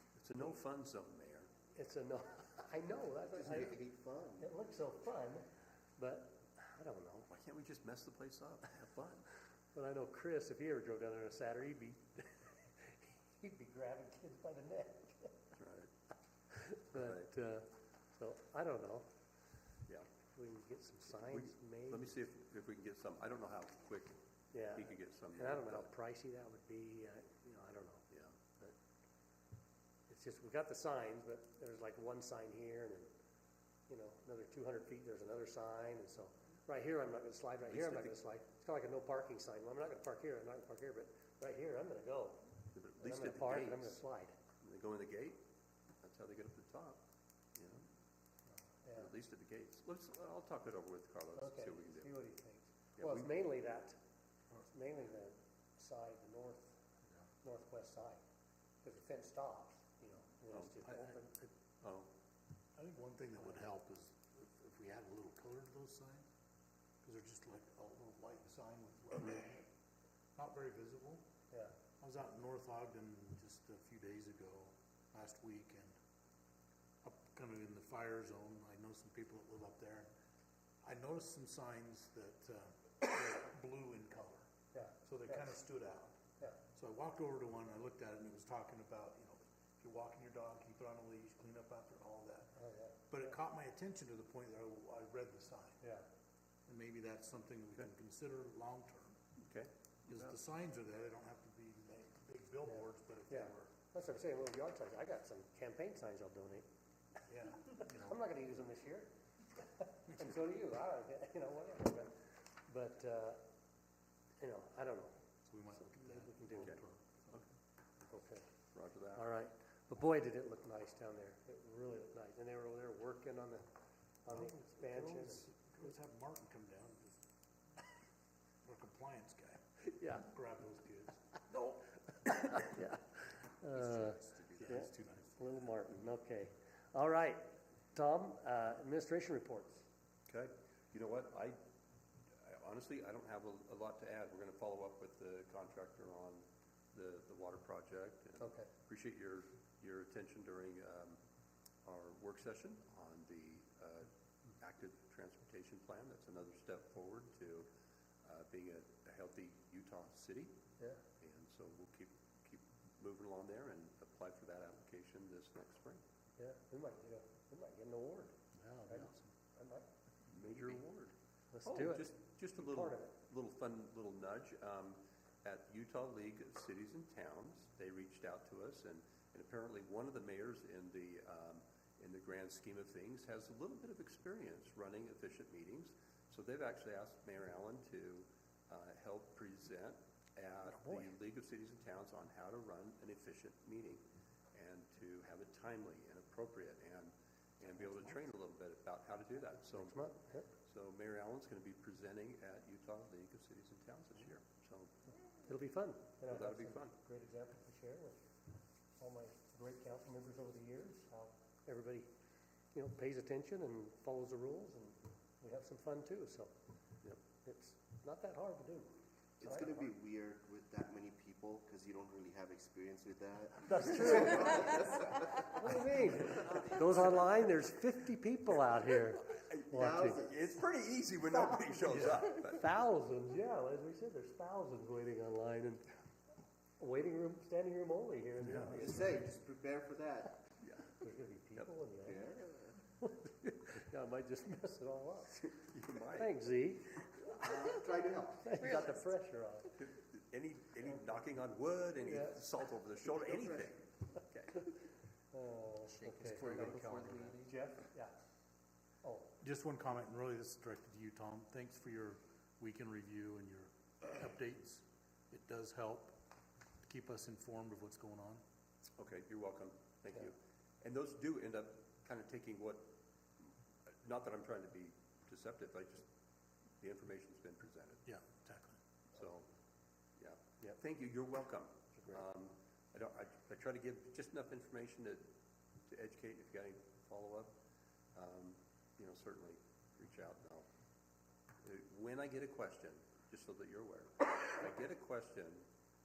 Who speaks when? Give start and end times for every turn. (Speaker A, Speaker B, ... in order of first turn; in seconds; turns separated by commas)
Speaker A: 0.2-1.5, Speaker B: 1.8-3.8, Speaker C: 3.4-4.5, Speaker B: 4.4-7.3, Speaker A: 7.3-9.3, Speaker B: 9.7-15.5, Speaker A: 15.6-15.9, Speaker B: 16.5-19.1, Speaker A: 16.9-17.3, Speaker B: 20.3-22.2, Speaker A: 21.2-24.2, Speaker B: 24.5-28.1, Speaker A: 24.7-25.9, Speaker A: 28.1-28.6, Speaker B: 30.1-33.1, Speaker B: 33.9-42.5, Speaker A: 37.7-38.1, Speaker A: 42.7-44.0, Speaker B: 43.0-44.4, Speaker A: 44.6-45.4, Speaker A: 46.0-47.0, Speaker A: 47.6-47.9, Speaker B: 48.8-49.1, Speaker A: 49.0-52.1, Speaker B: 51.4-54.0, Speaker A: 53.0-53.4, Speaker B: 54.5-56.8, Speaker B: 57.4-58.2, Speaker B: 58.8-61.5, Speaker D: 60.8-61.2, Speaker A: 61.8-62.1, Speaker D: 62.8-66.3, Speaker D: 67.0-69.7, Speaker D: 70.4-71.3, Speaker B: 71.5-71.8, Speaker D: 72.0-76.0, Speaker D: 77.0-80.1, Speaker D: 80.8-84.5, Speaker B: 84.7-85.6, Speaker D: 85.0-92.6, Speaker B: 92.6-93.1, Speaker D: 93.1-95.8, Speaker B: 95.8-96.1, Speaker D: 96.7-99.2, Speaker A: 99.4-100.4, Speaker D: 100.1-103.8, Speaker B: 102.7-106.7, Speaker D: 107.3-108.2, Speaker B: 107.7-113.4, Speaker B: 114.4-116.8, Speaker D: 115.4-117.4, Speaker B: 118.1-118.5, Speaker A: 118.8-119.2, Speaker B: 119.1-123.7, Speaker B: 124.2-125.5, Speaker D: 124.3-127.9, Speaker D: 128.7-129.6, Speaker B: 129.9-130.3, Speaker D: 130.1-132.8, Speaker B: 132.6-139.9, Speaker D: 133.7-135.7, Speaker A: 140.3-141.6, Speaker A: 142.4-151.2, Speaker B: 148.4-148.7, Speaker A: 151.8-157.7, Speaker A: 158.2-160.6, Speaker A: 161.2-166.0, Speaker B: 166.4-168.4, Speaker D: 168.5-169.3, Speaker B: 168.9-169.9, Speaker A: 170.3-171.1, Speaker B: 171.5-173.2, Speaker A: 171.7-194.0, Speaker A: 194.5-200.1, Speaker B: 199.7-200.5, Speaker A: 200.7-204.9, Speaker B: 205.4-208.2, Speaker A: 206.3-206.9, Speaker B: 209.0-212.1, Speaker B: 212.7-216.5, Speaker B: 217.4-219.9, Speaker C: 219.4-225.6, Speaker B: 223.6-230.3, Speaker A: 229.3-232.7, Speaker C: 229.7-230.4, Speaker B: 231.8-235.9, Speaker B: 236.8-239.2, Speaker C: 238.7-240.5, Speaker A: 240.6-241.0, Speaker B: 241.0-242.4, Speaker C: 242.1-242.7, Speaker B: 243.0-245.5, Speaker A: 245.4-246.4, Speaker B: 246.1-247.8, Speaker C: 247.3-248.7, Speaker B: 248.4-249.8, Speaker A: 248.6-249.1, Speaker A: 249.8-254.7, Speaker B: 252.1-252.4, Speaker B: 255.3-258.2, Speaker D: 256.0-257.6, Speaker A: 256.5-256.8, Speaker B: 259.0-259.3, Speaker D: 259.4-266.2, Speaker D: 266.8-268.4, Speaker A: 269.0-272.9, Speaker A: 273.4-276.1, Speaker A: 276.8-278.1, Speaker D: 278.1-278.8, Speaker A: 279.1-279.5, Speaker A: 280.2-285.2, Speaker A: 285.9-287.5, Speaker A: 288.1-290.7, Speaker A: 291.6-295.7